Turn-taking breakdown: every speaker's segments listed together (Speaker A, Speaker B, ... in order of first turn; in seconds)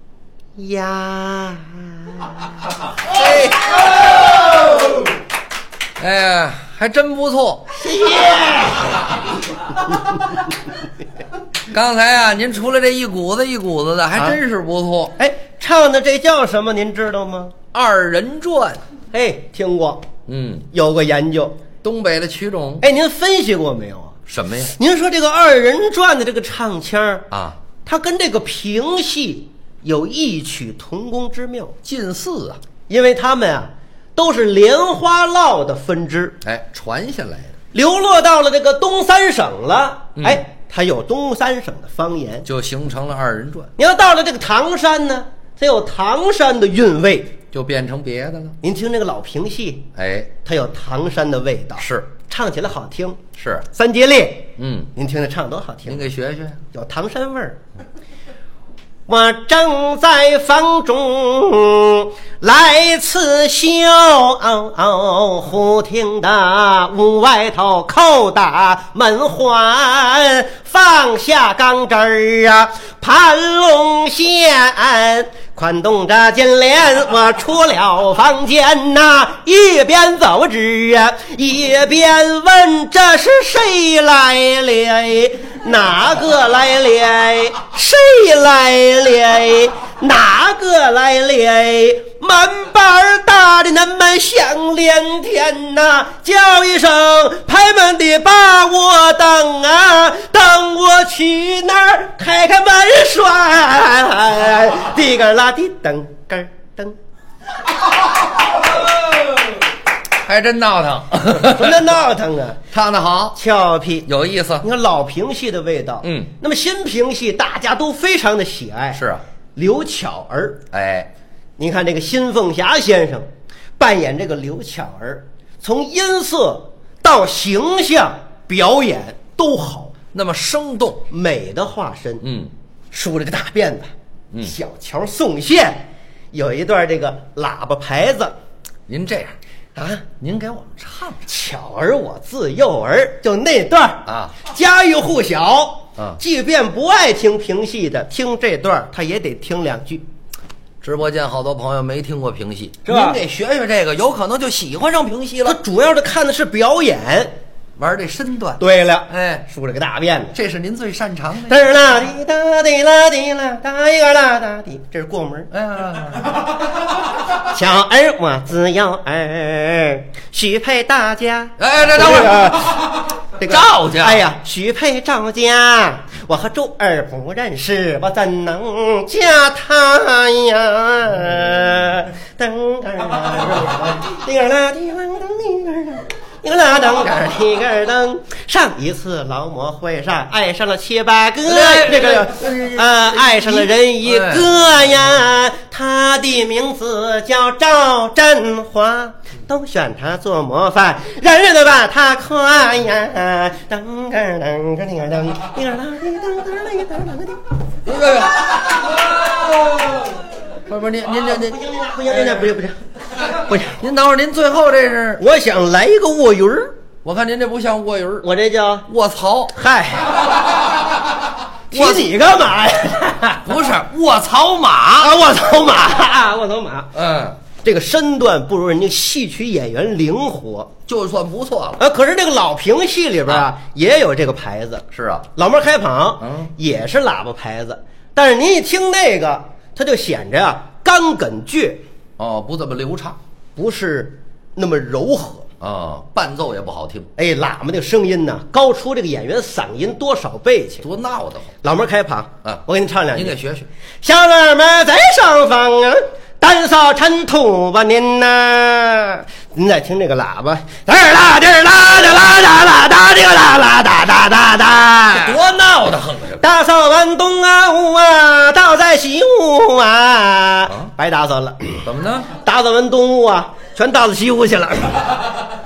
Speaker A: 0.6-2.5, 7.8-9.0, 15.2-17.5, 19.1-20.1, 20.7-21.6, 22.8-24.1, 24.7-27.3, 27.8-31.7, 32.9-36.4, 37.7-42.5, 43.8-47.3, 48.6-49.9, 50.4-53.2, 53.7-56.0, 56.7-57.6, 59.1-107.0, 111.4-112.6, 113.3-114.1, 114.6-119.0, 119.5-120.6, 121.6-123.3, 123.8-129.9, 131.1-132.2, 132.9-133.9, 134.4-138.3, 139.8-140.1, 141.2-150.0, 152.8-153.2, 155.4-157.3, 158.6-160.3, 161.5-165.5, 167.5-207.4, 211.3-212.8, 215.2-216.8, 218.2-218.9, 219.5-220.2, 221.7-223.5, 225.0-226.9, 227.6-230.7, 231.8-241.8, 243.6-245.5, 247.2-250.9, 251.6-253.4, 254.0-265.4, 266.4-271.8, 272.4-275.1
Speaker B: 3.0-3.8, 6.0-7.7, 11.7-15.1, 17.7-18.8, 20.3-20.7, 21.8-22.9, 24.3-24.7, 27.3-27.6, 31.8-32.6, 36.4-37.5, 40.2-40.4, 42.5-43.7, 47.5-48.6, 49.9-50.3, 51.8-52.1, 53.4-53.6, 54.6-54.9, 55.9-56.6, 110.2-111.8, 112.7-113.4, 114.0-114.7, 116.0-116.3, 118.9-119.2, 120.7-121.1, 130.1-131.0, 132.2-132.5, 138.9-139.3, 140.2-141.2, 144.1-144.3, 150.8-155.6, 157.8-159.4, 160.3-161.6, 165.5-166.5, 171.6-172.8, 173.4-174.2, 191.4-194.5, 207.8-208.5, 210.7-211.6, 213.3-215.2, 217.0-218.3, 218.9-219.5, 221.7-222.1, 223.4-225.1, 226.9-227.4, 230.9-231.8, 234.9-235.3, 236.2-236.5, 242.2-243.2, 245.6-247.1, 250.8-251.5, 252.4-253.7, 265.2-266.4, 271.8-272.3